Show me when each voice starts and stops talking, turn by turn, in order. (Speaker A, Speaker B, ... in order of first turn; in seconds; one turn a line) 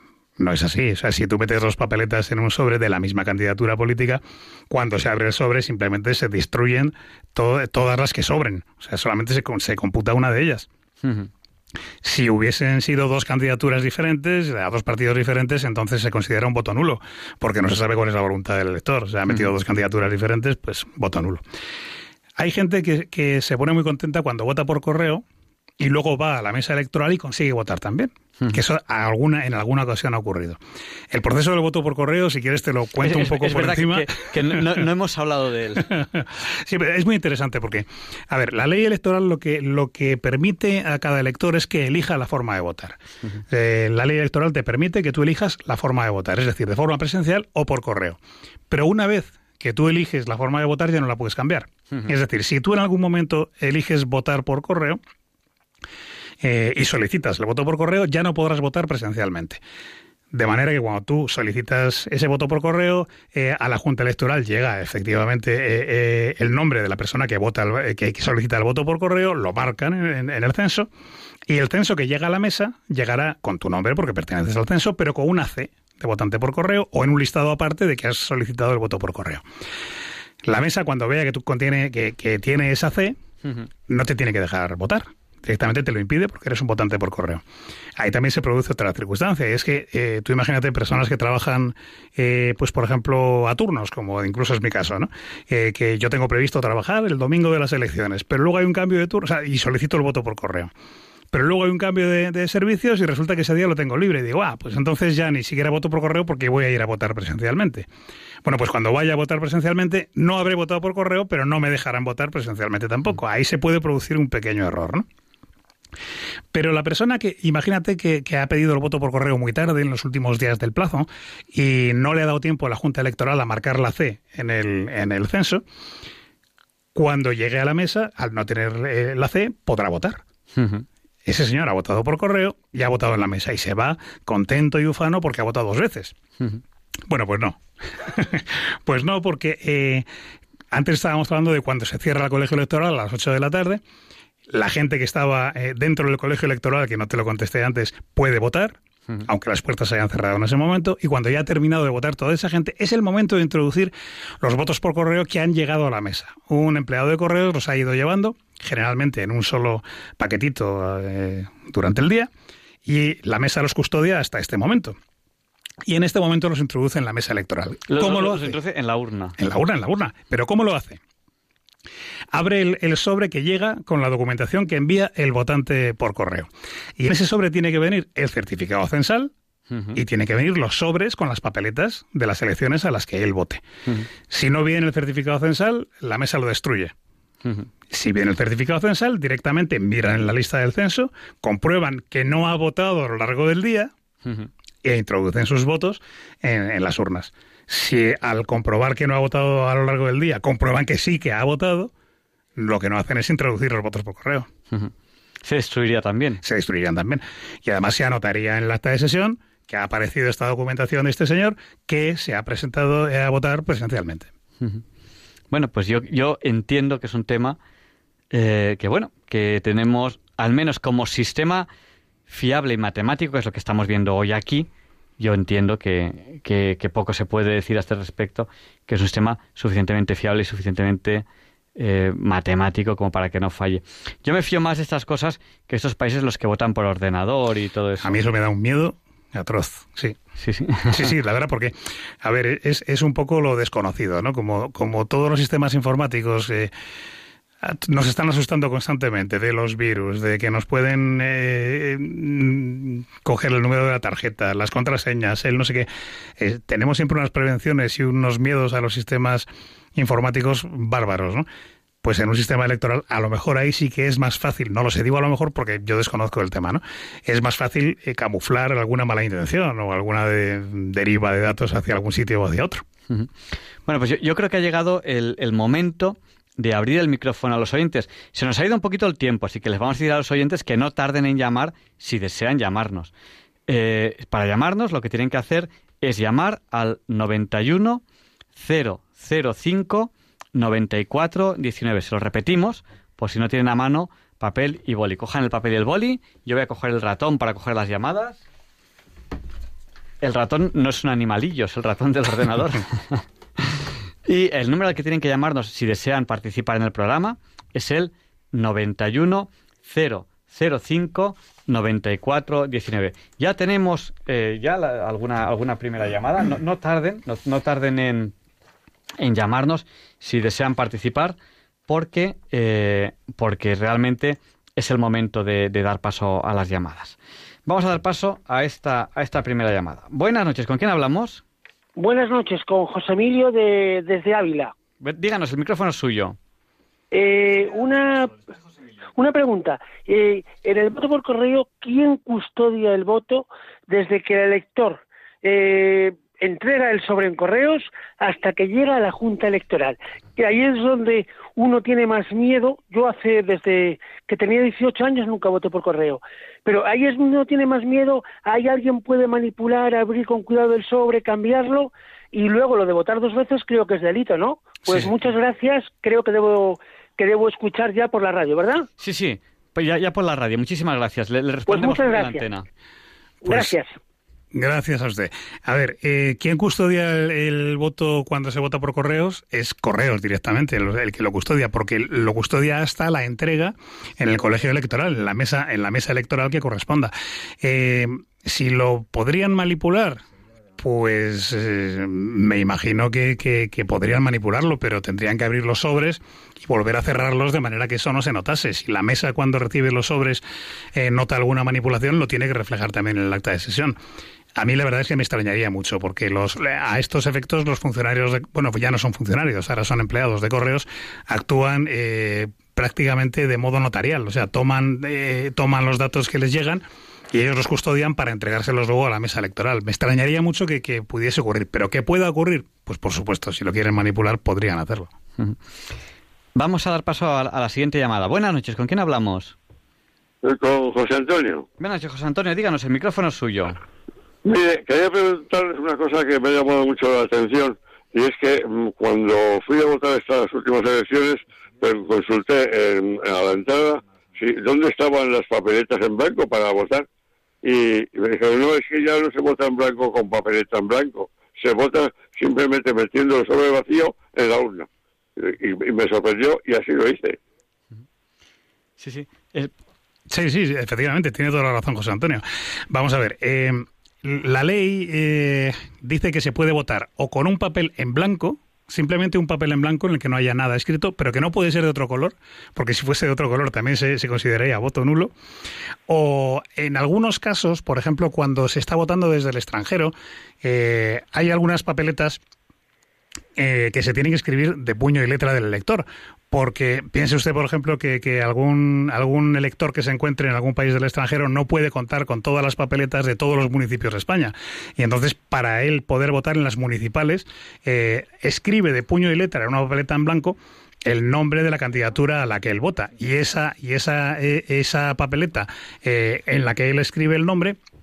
Speaker A: 0.4-10.7
Speaker B: 11.0-11.3
Speaker A: 12.0-21.4
Speaker A: 22.4-25.2
Speaker A: 25.8-30.6
Speaker A: 31.1-34.9
Speaker B: 33.0-35.9
Speaker A: 35.8-48.2
Speaker A: 48.7-55.0
Speaker A: 56.4-59.6
Speaker A: 60.3-70.9
Speaker A: 71.5-79.4
Speaker A: 80.4-83.2
Speaker A: 83.8-87.4
Speaker A: 88.0-100.7
Speaker A: 101.3-107.9
Speaker A: 108.4-115.0
Speaker A: 116.5-125.6
Speaker A: 126.9-130.2
Speaker B: 130.5-130.8
Speaker A: 131.2-136.1
Speaker A: 137.1-140.1
Speaker A: 140.7-143.8
Speaker A: 144.5-162.3
Speaker A: 162.8-165.0
Speaker A: 165.8-168.6
Speaker B: 167.9-169.3
Speaker A: 169.4-171.0
Speaker A: 172.3-179.3
Speaker B: 179.7-180.0
Speaker A: 179.9-183.6
Speaker A: 184.2-186.9
Speaker B: 187.4-187.7
Speaker A: 187.9-193.9
Speaker B: 194.2-194.5
Speaker A: 194.8-201.9
Speaker A: 202.6-204.5
Speaker B: 205.4-206.4
Speaker A: 206.4-214.3
Speaker B: 215.5-217.6
Speaker B: 218.3-221.7
Speaker B: 222.3-231.2
Speaker B: 231.8-238.2
Speaker A: 238.0-240.2
Speaker B: 240.4-241.1
Speaker A: 240.9-246.7
Speaker A: 247.6-261.4
Speaker A: 262.0-272.8
Speaker B: 273.9-283.1
Speaker B: 283.7-288.0
Speaker B: 288.6-298.4
Speaker B: 300.2-318.3
Speaker B: 319.2-321.4
Speaker B: 321.9-331.4
Speaker C: 332.0-334.7
Speaker B: 335.0-336.4
Speaker C: 337.1-338.4
Speaker C: 339.2-368.9
Speaker B: 369.0-372.6
Speaker C: 371.7-372.5
Speaker C: 373.4-373.9
Speaker A: 373.4-373.7
Speaker A: 374.5-390.2
Speaker A: 390.8-404.0
Speaker A: 404.6-425.1
Speaker B: 426.5-429.6
Speaker D: 430.4-431.6
Speaker B: 431.8-433.8
Speaker D: 434.4-447.1
Speaker D: 447.6-457.4
Speaker B: 459.0-459.7
Speaker A: 460.3-475.3
Speaker A: 476.1-482.4
Speaker A: 483.6-507.8